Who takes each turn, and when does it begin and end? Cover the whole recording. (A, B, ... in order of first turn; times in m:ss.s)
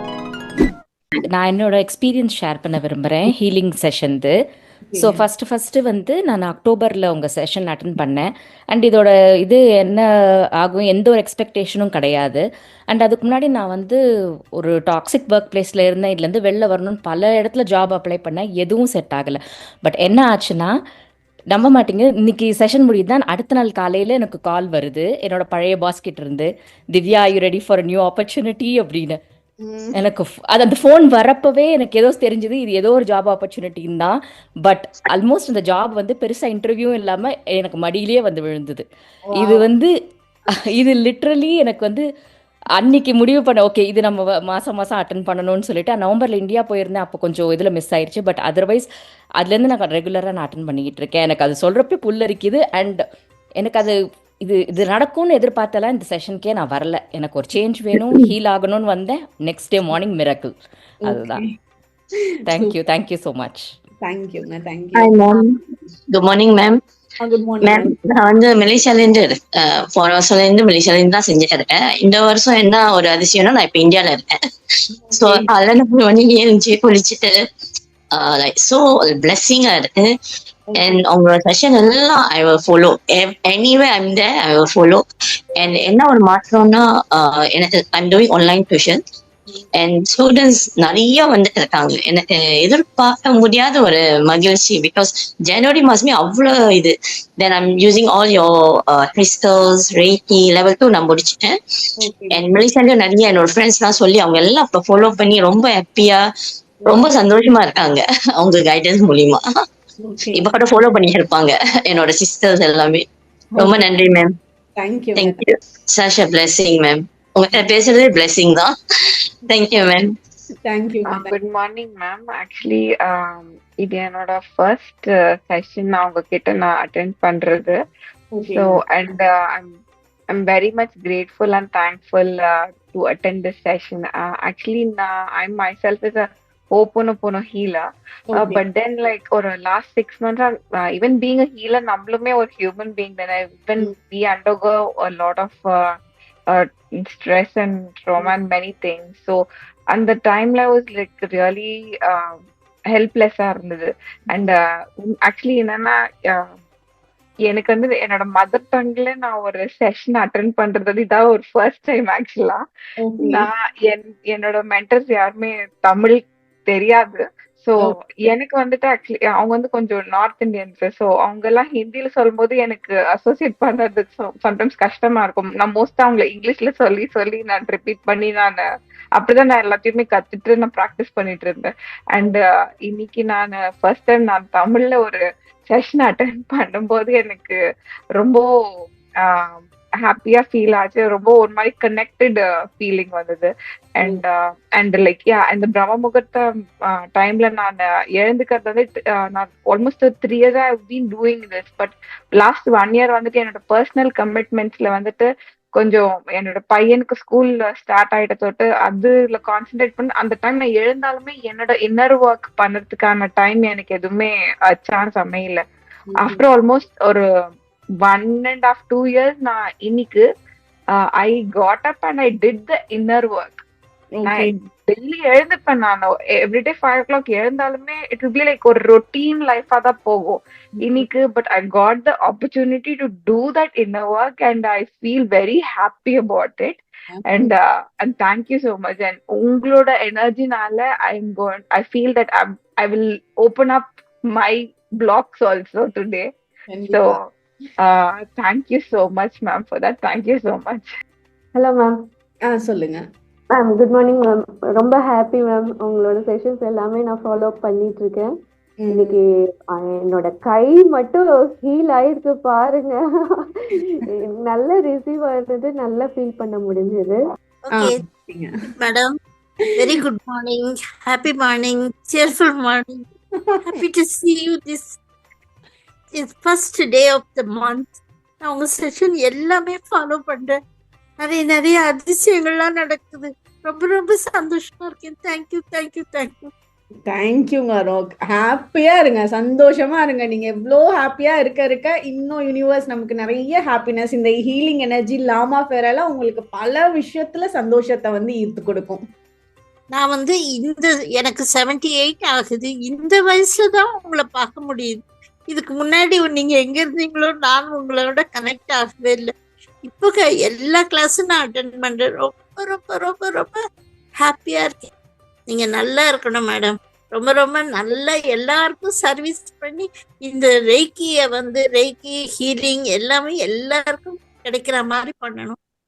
0:01.3-0:04.3 A
0:04.9-0:05.2 B
0:05.0-0:10.1 A
0:10.6-0:14.0 A
0:14.6-0:20.7 A
0:21.5-0:29.2 A
0:29.6-0:30.0 B
0:29.9-0:38.8 A
0:39.3-0:39.7 B
0:39.4-0:39.9 A
0:40.7-0:42.0 A
0:42.8-0:48.9 A
0:49.4-0:53.0 A
0:53.6-1:00.5 A
1:01.0-1:01.5 B
1:01.0-1:01.4 A
1:02.5-1:03.7 A
1:04.0-1:05.4 B
1:05.0-1:05.6 C
1:06.1-1:06.8 C
1:07.2-1:07.9 B
1:07.6-1:14.4 C
1:15.0-1:15.5 B
1:15.1-1:17.4 C
1:18.1-1:20.1 C
1:20.7-1:21.0 B
1:20.7-1:25.0 C
1:25.6-1:29.0 C
1:29.8-1:41.5 C
1:42.0-1:42.5 B
1:42.3-1:46.2 C
1:46.8-1:47.2 B
1:46.9-1:49.4 C
1:50.0-1:50.5 B
1:50.3-1:53.1 C
1:53.6-1:53.8 B
1:53.6-1:54.3 C
1:54.8-1:55.4 B
1:55.1-1:58.7 C
1:59.5-2:00.2 C
2:00.6-2:01.3 B
2:01.1-2:07.8 D
2:08.3-2:08.8 B
2:08.5-2:09.7 D
2:10.3-2:17.8 D
2:18.3-2:18.6 B
2:18.4-2:25.9 D
2:26.5-2:29.4 D
2:29.9-2:32.4 D
2:32.9-2:36.5 D
2:34.3-2:34.6 B
2:37.5-2:42.6 D
2:43.0-2:43.5 B
2:43.2-2:58.6 D
2:59.2-3:07.6 D
3:08.2-3:08.4 D
3:09.2-3:35.6 D
3:36.1-3:36.4 B
3:36.2-3:37.2 D
3:38.0-3:40.2 D
3:41.2-3:43.6 D
3:44.1-3:44.5 B
3:44.3-4:06.3 D
3:50.8-3:51.1 B
3:57.1-3:57.5 B
4:06.7-4:07.2 B
4:06.9-4:07.2 D
4:07.8-4:10.9 D
4:11.6-4:11.9 E
4:12.5-4:13.0 B
4:13.5-4:18.3 E
4:18.8-4:19.2 B
4:18.9-4:19.2 E
4:19.8-4:23.0 E
4:24.2-4:27.2 E
4:27.7-4:28.0 F
4:27.7-4:28.5 B
4:28.8-4:29.1 F
4:29.8-4:33.0 F
4:33.4-4:33.8 B
4:33.6-4:35.0 F
4:36.1-4:40.6 F
4:41.2-4:46.4 F
4:47.1-4:59.0 B
5:00.0-5:09.3 F
5:09.9-5:13.6 F
5:14.2-5:14.9 F
5:15.5-5:25.6 F